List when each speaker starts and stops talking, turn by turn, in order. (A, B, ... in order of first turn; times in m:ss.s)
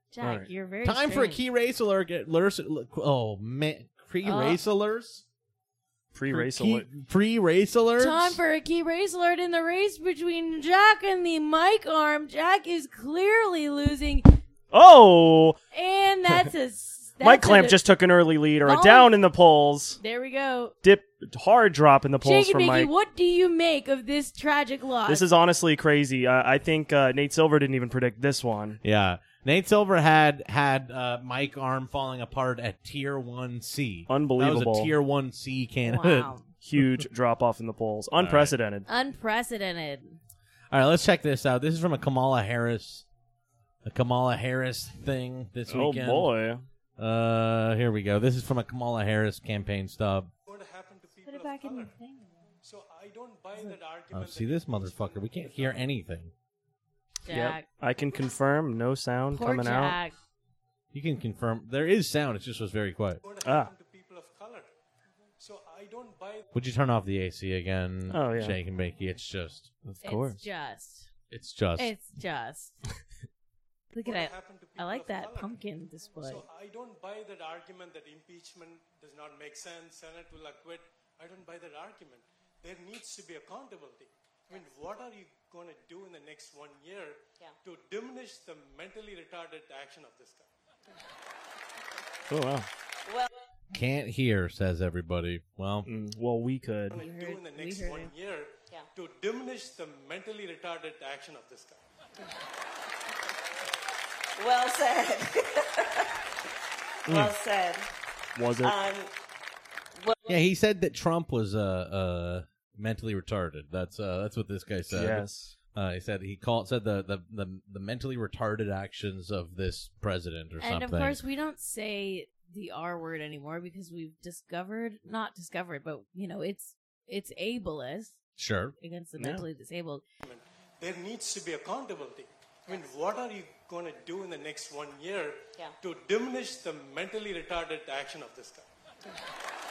0:00.1-0:01.4 A
0:00.2-0:00.5 B
0:00.8-0:05.2 C
0:04.2-0:04.6 A
0:06.1-0:06.9 B
0:06.3-0:08.4 C
0:08.0-0:14.4 A
0:14.7-0:15.6 B
0:15.7-0:17.8 A
0:17.2-0:20.0 B
0:18.6-0:19.2 A
0:20.0-0:20.7 A
0:20.8-0:22.9 B
0:22.2-0:25.2 A
0:25.1-0:28.8 B
0:28.8-0:37.0 C
0:34.1-0:34.9 B
0:35.8-0:36.5 A
0:36.6-0:38.9 B
0:38.1-0:38.5 C
0:38.9-0:40.2 A
0:40.7-0:43.0 C
0:43.8-0:46.3 C
0:45.7-0:46.6 B
0:47.0-0:50.3 C
0:50.5-0:51.9 D
0:51.2-0:52.4 A
0:52.6-0:55.9 D
0:54.1-0:56.3 C
0:57.2-0:57.6 A
0:57.3-1:00.0 B
0:59.3-1:00.1 A
1:00.9-1:03.2 C
1:03.2-1:04.7 D
1:03.4-1:03.7 B
1:05.4-1:06.4 D
1:06.5-1:09.7 C
1:08.1-1:08.6 B
1:09.8-1:10.4 B
1:10.0-1:11.1 A
1:11.3-1:11.9 C
1:11.8-1:12.8 A
1:13.9-1:16.4 A
1:14.0-1:15.6 D
1:16.2-1:30.5 D
1:32.3-1:32.7 B
1:33.7-1:35.9 C
1:35.8-1:37.0 B
1:36.9-1:41.8 D
1:36.9-1:38.1 A
1:44.4-1:45.8 E
1:47.1-1:47.8 E
1:48.4-1:48.8 B
1:48.6-1:49.1 E
1:50.3-2:01.2 C
1:54.9-1:55.5 B
2:00.6-2:08.2 A
2:08.4-2:08.7 C
2:08.8-2:10.0 A
2:09.2-2:09.4 B
2:10.2-2:18.7 D